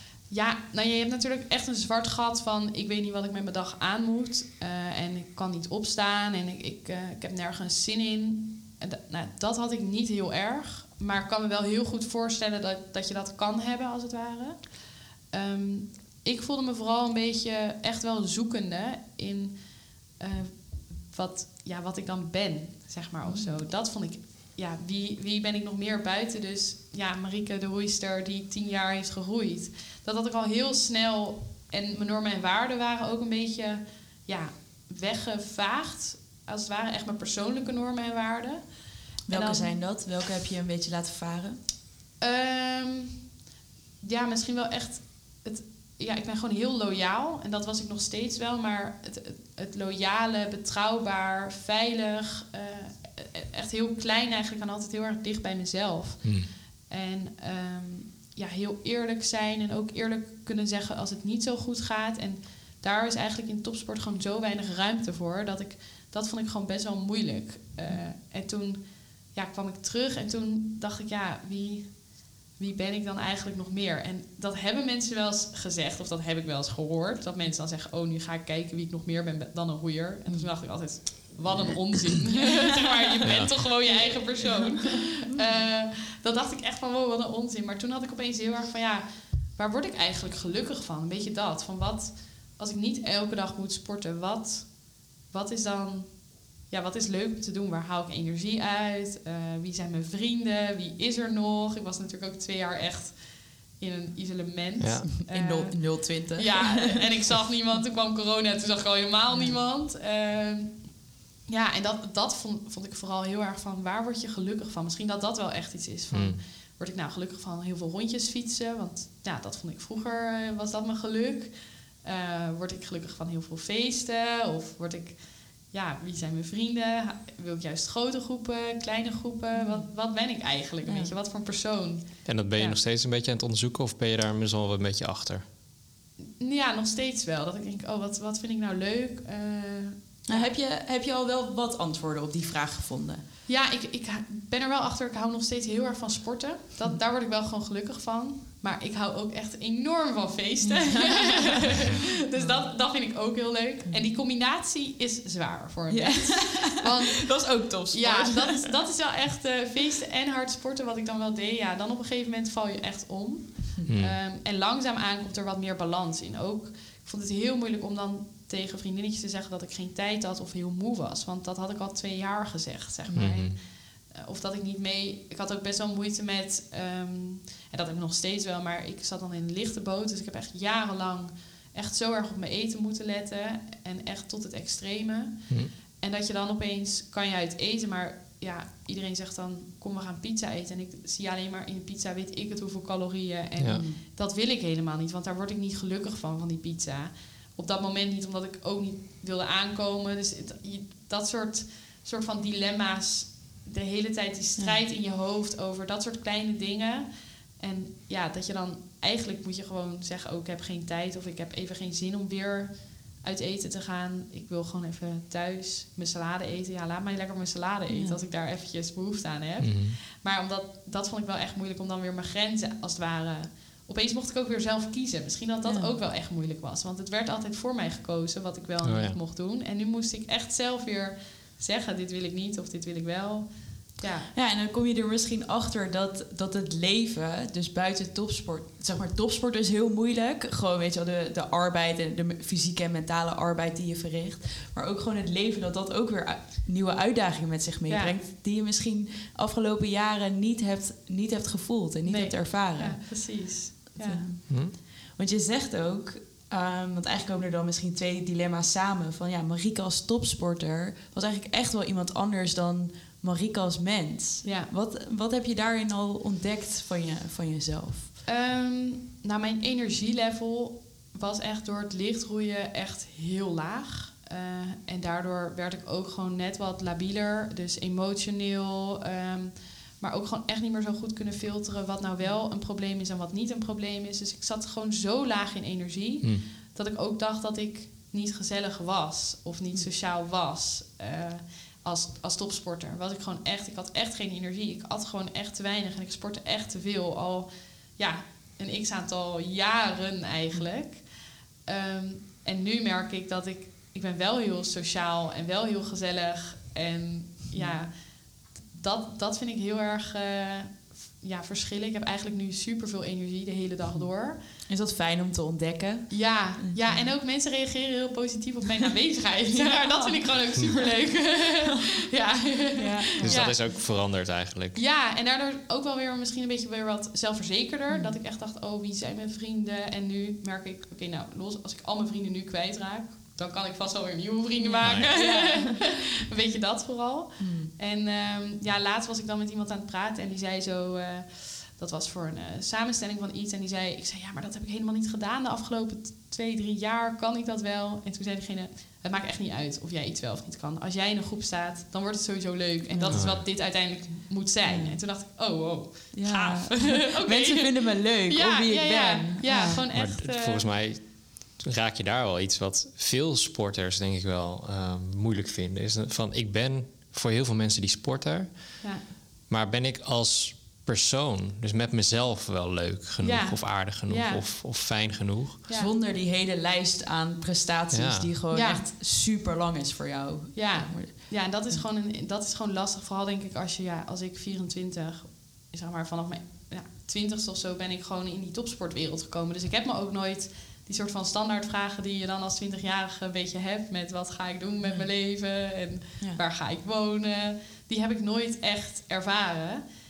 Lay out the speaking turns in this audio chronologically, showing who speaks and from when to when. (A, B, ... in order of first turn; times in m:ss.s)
0:00.3-0:39.8 A
0:23.2-0:23.6 B
0:39.3-0:41.6 B
0:42.2-0:43.2 A
0:44.0-1:51.0 A
0:56.2-0:56.5 C
1:20.3-1:21.0 B
1:22.6-1:23.1 B
1:23.2-1:23.5 C
1:23.9-1:24.6 B
1:44.8-1:45.1 C
1:45.2-1:46.9 B
1:49.3-1:49.6 B
1:51.5-2:12.8 A
1:56.1-1:56.4 C
2:09.6-2:09.9 B
2:10.8-2:11.1 B
2:12.2-2:15.4 C
2:16.4-2:20.6 A
2:20.3-2:23.2 B
2:23.5-3:54.3 A
2:30.6-2:31.6 B
2:32.4-2:32.7 B
2:35.9-2:38.7 B
2:43.9-2:44.2 C
2:53.1-2:53.3 B
2:53.1-2:53.6 C
3:13.6-3:13.8 C
3:13.7-3:14.0 B
3:37.9-3:38.2 B
3:39.6-3:40.0 C
3:45.7-3:46.0 B
3:48.8-3:49.2 C
3:54.3-4:28.2 B
4:07.9-4:08.2 A
4:12.1-4:14.2 A
4:14.5-4:14.8 C
4:24.4-4:24.7 A
4:28.3-5:01.1 A
5:01.7-5:08.0 A
5:08.7-5:14.4 A
5:14.0-5:17.1 B
5:16.1-5:23.7 A
5:19.5-5:20.2 B
5:22.8-5:23.7 B
5:23.2-5:24.8 C
5:24.8-6:00.7 A
5:27.9-5:28.2 B
5:34.6-5:35.8 B
5:34.8-5:35.1 C
5:37.4-5:37.7 B
5:52.9-5:53.3 B
5:53.1-5:53.4 C
5:54.7-5:55.0 B
5:56.1-5:59.8 B
5:59.9-6:08.9 C
6:09.5-6:15.6 C
6:13.2-6:14.4 A
6:15.7-6:15.9 A
6:15.7-6:21.8 B
6:17.9-6:18.3 C
6:18.5-6:18.9 A
6:20.5-6:39.8 A